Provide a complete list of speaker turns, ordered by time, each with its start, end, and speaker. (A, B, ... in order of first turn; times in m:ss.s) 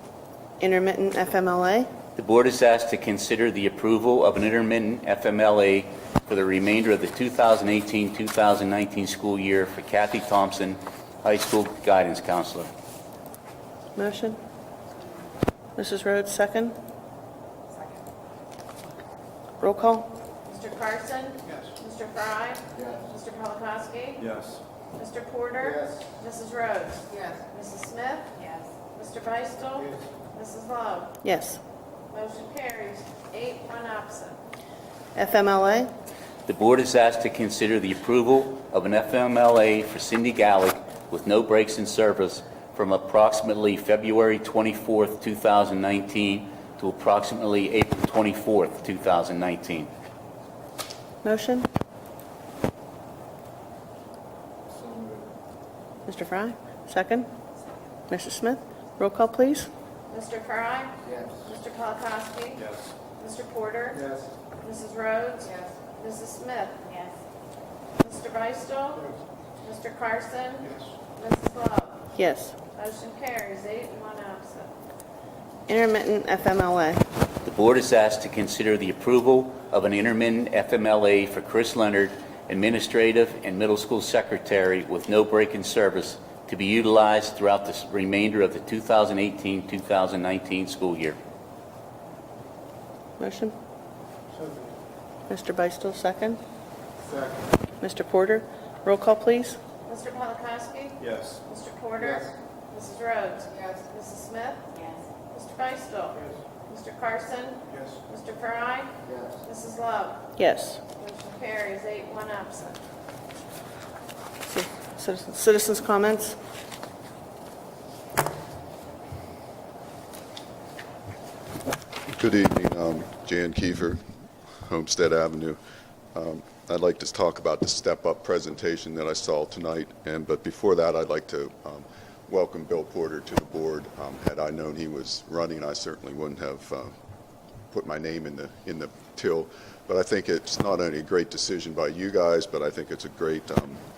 0:00.6-0:01.9 A
0:02.2-0:12.7 B
0:14.0-0:14.4 A
0:15.8-0:16.8 A
0:19.6-0:20.2 A
0:20.5-0:24.3 C
0:25.0-0:31.2 C
0:31.2-0:31.6 A
0:32.1-0:34.4 C
0:35.2-0:35.9 A
0:36.5-0:49.9 B
0:51.2-0:51.7 A
0:56.1-0:57.3 A
0:58.1-0:59.7 A
1:00.1-1:02.6 C
1:03.2-1:04.1 C
1:04.6-1:07.0 C
1:08.0-1:09.1 C
1:09.6-1:12.1 C
1:12.2-1:12.6 A
1:12.8-1:14.7 C
1:15.7-1:17.0 A
1:17.4-1:31.2 B
1:33.2-1:33.5 A
1:35.3-1:36.4 A
1:37.8-1:39.6 A
1:39.9-1:44.8 C
1:45.3-1:48.9 C
1:49.4-1:50.3 C
1:50.4-1:50.8 A
1:51.0-1:52.8 C
1:54.5-1:56.4 A
2:02.1-2:04.0 D
2:04.6-2:05.6 D
2:06.1-2:16.9 D
2:17.7-2:23.8 D